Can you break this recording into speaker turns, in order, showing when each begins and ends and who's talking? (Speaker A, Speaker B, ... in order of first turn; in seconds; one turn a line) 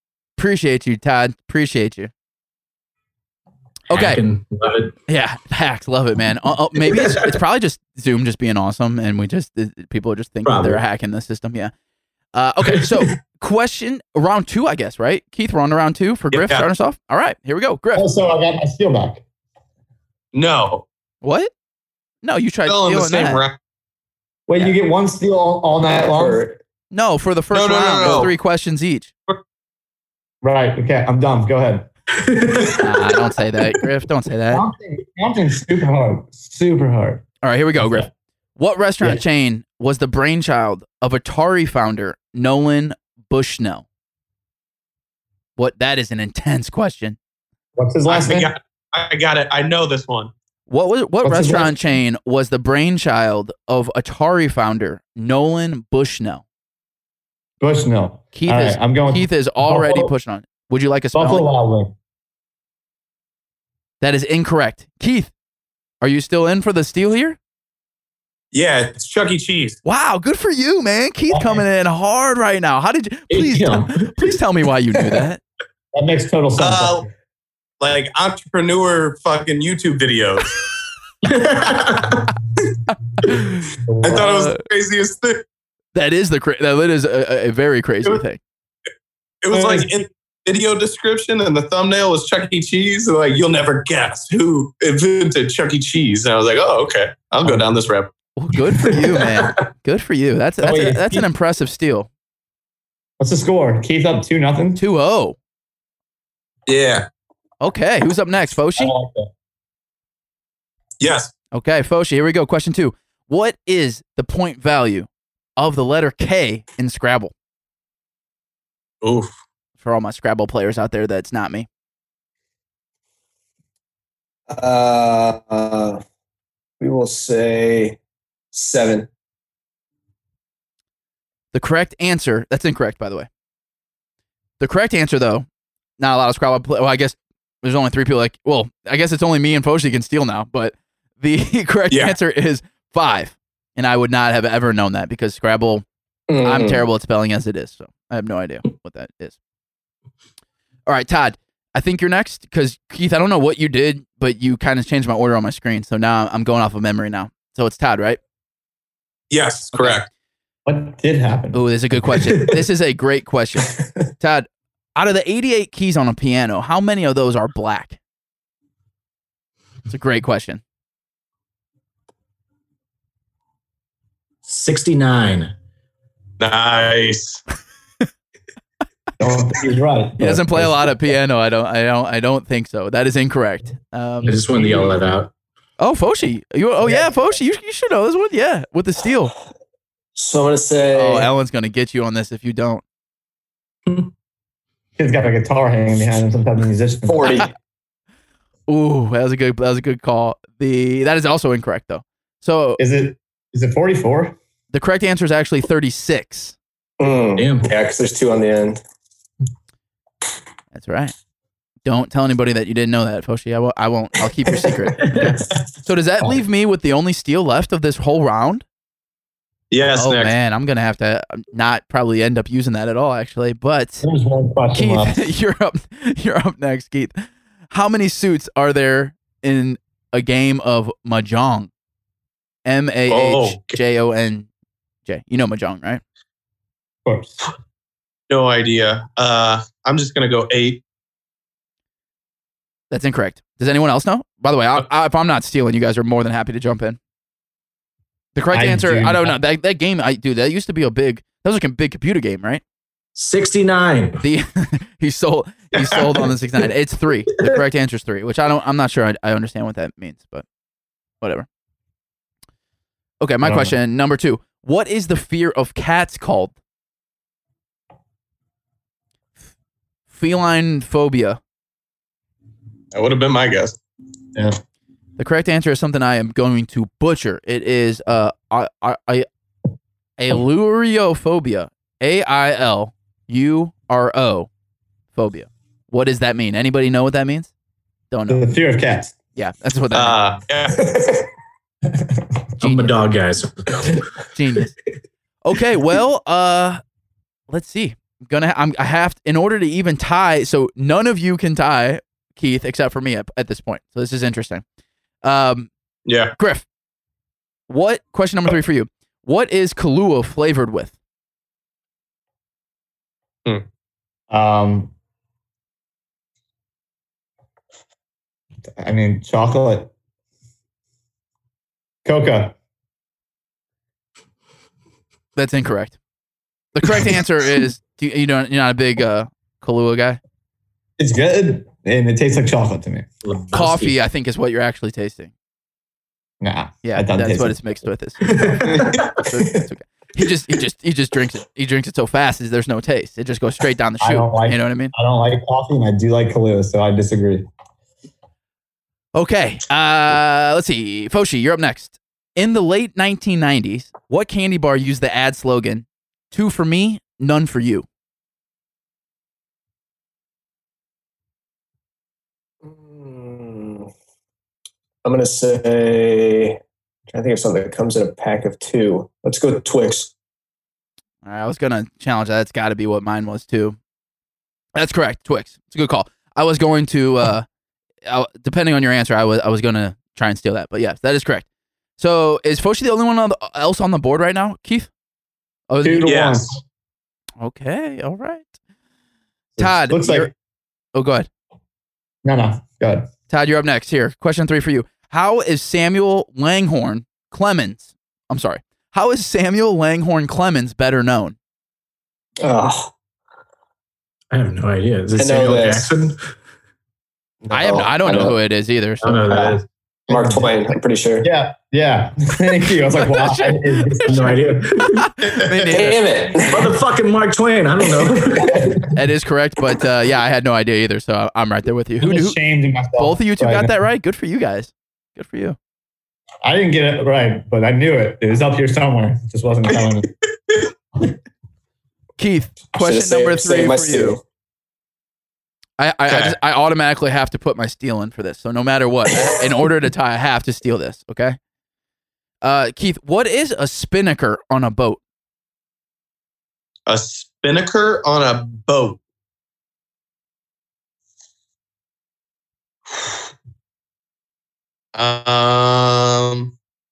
Speaker A: 0.4-2.1
Speaker A: 3.9-4.2
Speaker B: 3.9-4.9
Speaker A: 5.1-11.7
Speaker B: 6.8-7.4
Speaker B: 10.4-10.8
Speaker A: 12.3-18.1
Speaker B: 12.6-13.1
Speaker C: 16.3-16.7
Speaker D: 17.9-19.2
Speaker C: 20.3-20.9
Speaker A: 21.2-21.5
Speaker A: 22.2-23.4
Speaker C: 22.6-23.5
Speaker D: 24.5-26.5
Speaker E: 26.1-26.5
Speaker A: 26.9-29.1
Speaker C: 27.5-28.3
Speaker D: 30.4-31.9
Speaker B: 32.2-33.1
Speaker A: 32.8-34.6
Speaker D: 34.5-37.2
Speaker A: 37.4-43.8
Speaker D: 37.8-38.0
Speaker A: 45.6-47.2
Speaker D: 47.8-48.5
Speaker C: 48.1-50.3
Speaker A: 50.7-56.4
Speaker D: 51.2-51.7
Speaker D: 57.6-60.1
Speaker A: 58.3-61.5
Speaker D: 61.1-61.9
Speaker A: 64.0-65.3
Speaker A: 66.0-67.4
Speaker C: 68.5-69.8
Speaker A: 69.8-75.4
Speaker D: 71.3-71.6
Speaker B: 73.3-74.3
Speaker D: 75.9-77.1
Speaker C: 76.6-77.0
Speaker C: 77.8-80.5
Speaker B: 81.2-82.3
Speaker A: 82.9-84.6
Speaker D: 83.3-84.3
Speaker C: 84.0-85.4
Speaker A: 85.9-88.4
Speaker C: 89.4-98.1
Speaker D: 89.5-89.9
Speaker A: 98.3-102.1
Speaker D: 100.6-101.3
Speaker D: 103.2-104.8
Speaker A: 104.8-105.4
Speaker C: 106.7-107.0
Speaker A: 107.6-108.9
Speaker D: 108.8-109.3
Speaker C: 111.0-111.3
Speaker A: 111.5-117.3
Speaker C: 119.0-119.3
Speaker A: 119.8-121.7
Speaker E: 124.5-126.0
Speaker E: 126.8-128.0
Speaker E: 128.5-129.1
Speaker A: 131.5-133.3
Speaker A: 134.6-135.4
Speaker A: 136.0-145.8
Speaker E: 146.3-146.8
Speaker A: 146.4-149.4
Speaker A: 150.8-158.2
Speaker C: 159.3-160.1
Speaker A: 159.7-160.0
Speaker D: 160.7-162.1
Speaker A: 161.5-168.0
Speaker A: 169.9-170.6
Speaker B: 174.4-175.5
Speaker C: 176.4-177.4
Speaker D: 179.2-181.0
Speaker A: 180.2-184.4
Speaker B: 184.2-185.3
Speaker A: 185.8-189.3
Speaker E: 190.2-191.3
Speaker A: 190.9-192.8
Speaker D: 195.0-197.4
Speaker E: 197.1-197.5
Speaker A: 198.7-202.8
Speaker D: 202.8-204.4
Speaker A: 204.7-206.6
Speaker E: 207.0-208.8
Speaker B: 207.4-207.7
Speaker A: 210.7-211.1
Speaker A: 211.8-215.3
Speaker B: 215.0-215.3
Speaker A: 215.8-218.6
Speaker C: 219.7-220.3
Speaker A: 219.9-224.0
Speaker D: 224.0-225.2
Speaker A: 224.7-231.7
Speaker A: 232.6-234.5
Speaker C: 233.1-233.8
Speaker A: 235.1-236.0
Speaker D: 237.0-237.4
Speaker C: 238.3-240.8
Speaker A: 242.9-247.0
Speaker A: 248.3-252.6
Speaker D: 248.5-249.3
Speaker B: 253.1-254.2
Speaker A: 254.2-260.4
Speaker A: 261.2-261.5
Speaker A: 263.2-266.5
Speaker D: 263.4-263.8
Speaker A: 270.1-271.4
Speaker C: 272.9-273.8
Speaker A: 275.2-279.2
Speaker A: 280.2-284.5
Speaker A: 285.1-287.5
Speaker A: 288.1-288.5
Speaker D: 288.3-289.1
Speaker A: 289.4-290.2
Speaker C: 289.9-290.9
Speaker D: 291.9-292.2
Speaker B: 292.6-294.1
Speaker A: 292.6-293.0
Speaker A: 294.3-294.7
Speaker A: 295.4-296.8
Speaker A: 297.5-304.6
Speaker A: 305.2-305.7
Speaker C: 306.0-306.3
Speaker A: 306.4-306.6
Speaker A: 307.7-310.9
Speaker D: 314.3-314.9
Speaker D: 318.8-319.9
Speaker D: 322.0-322.5
Speaker A: 325.4-326.0
Speaker A: 326.7-330.2
Speaker D: 331.0-333.1
Speaker B: 333.2-333.9
Speaker A: 333.5-335.3
Speaker D: 336.4-337.7
Speaker A: 336.8-344.9
Speaker B: 338.3-339.1
Speaker D: 338.6-339.0
Speaker D: 344.0-347.4
Speaker A: 349.1-357.9
Speaker E: 362.6-363.9
Speaker E: 365.0-366.6
Speaker E: 367.1-370.1
Speaker A: 371.2-373.8
Speaker A: 374.7-377.4
Speaker A: 378.1-381.4
Speaker A: 382.0-384.9
Speaker A: 385.7-386.1
Speaker D: 385.8-386.6
Speaker C: 386.0-386.6
Speaker A: 387.4-388.4
Speaker D: 389.6-390.3
Speaker A: 389.6-390.3
Speaker A: 390.9-391.3
Speaker D: 392.2-393.1
Speaker A: 393.3-401.4
Speaker E: 402.4-402.9
Speaker B: 404.3-406.2
Speaker E: 405.1-405.9
Speaker E: 407.4-408.4
Speaker A: 407.5-409.2
Speaker B: 409.0-409.6
Speaker D: 410.1-410.6
Speaker E: 410.1-411.3
Speaker D: 411.2-414.6
Speaker A: 412.9-416.0
Speaker B: 414.1-415.1
Speaker E: 415.7-416.7
Speaker B: 416.4-418.8
Speaker D: 418.4-418.9
Speaker A: 418.9-422.4
Speaker D: 422.0-423.7
Speaker A: 423.0-425.6
Speaker D: 426.4-430.1
Speaker A: 432.2-434.2
Speaker E: 432.8-434.2
Speaker A: 435.8-441.4
Speaker C: 436.1-436.4
Speaker A: 442.4-445.0
Speaker C: 446.9-449.0
Speaker C: 454.9-456.5